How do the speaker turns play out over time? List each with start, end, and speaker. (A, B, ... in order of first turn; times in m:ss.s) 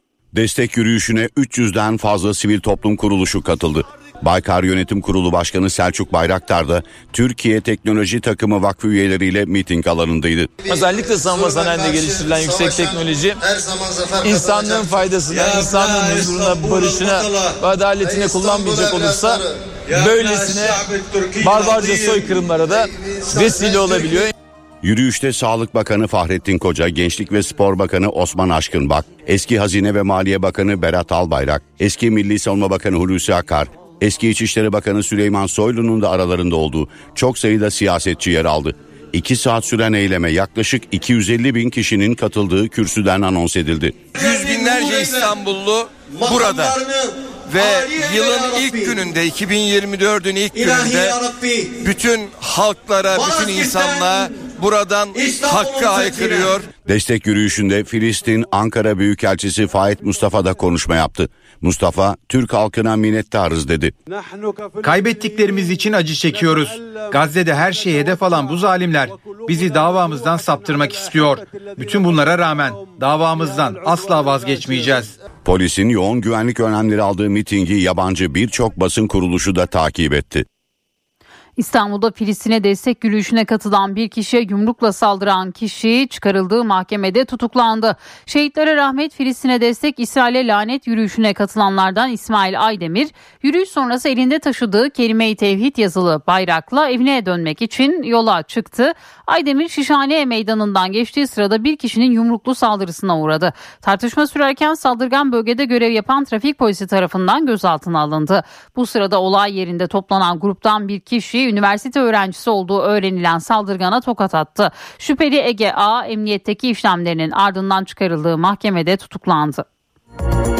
0:00.3-0:10.5 A
0:10.7-0:13.4 B
0:14.2-0:20.8 B
0:21.4-0:24.3 B
0:24.8-0:44.0 A
0:44.1-0:46.8 C
0:47.5-0:51.2 C
0:51.8-0:56.7 C
0:56.8-1:03.9 A
1:04.8-1:15.1 D
1:15.4-1:20.4 A
1:21.6-1:59.6 E